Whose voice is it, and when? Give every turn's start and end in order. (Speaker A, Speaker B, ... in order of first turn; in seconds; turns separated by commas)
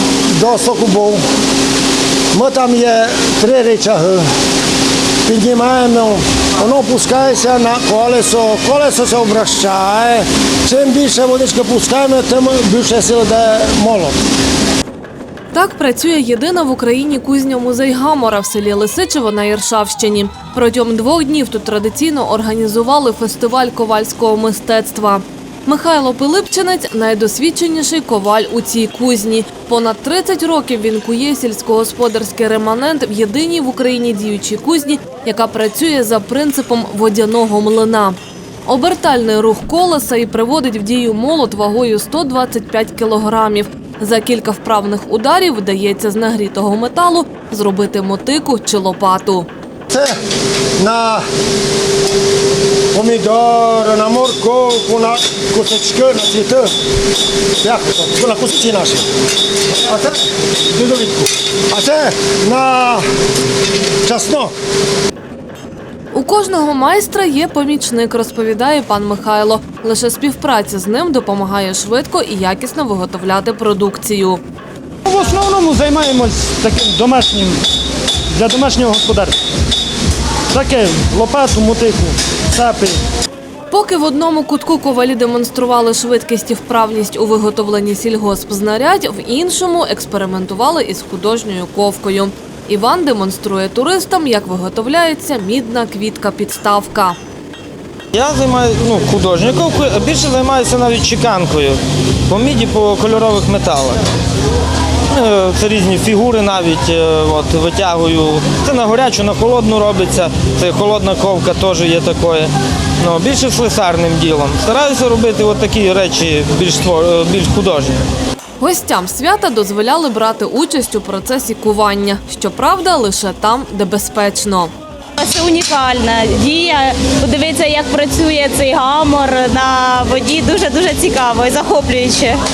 Speaker A: 0.3-1.2, Speaker A: 2.3-4.3, Speaker A: 5.2-14.2, Speaker B: 15.5-49.5, Speaker A: 49.9-50.2, Speaker A: 50.8-51.2, Speaker A: 52.9-56.7, Speaker A: 57.6-59.1, Speaker A: 59.8-63.0, Speaker A: 64.0-64.5, Speaker B: 66.1-74.4, Speaker C: 75.0-77.6, Speaker C: 78.3-79.3, Speaker C: 80.5-83.0, Speaker B: 83.7-97.2, Speaker D: 98.1-104.0, Speaker D: 105.1-118.0, Speaker B: 118.6-124.7, Speaker E: 125.2-132.4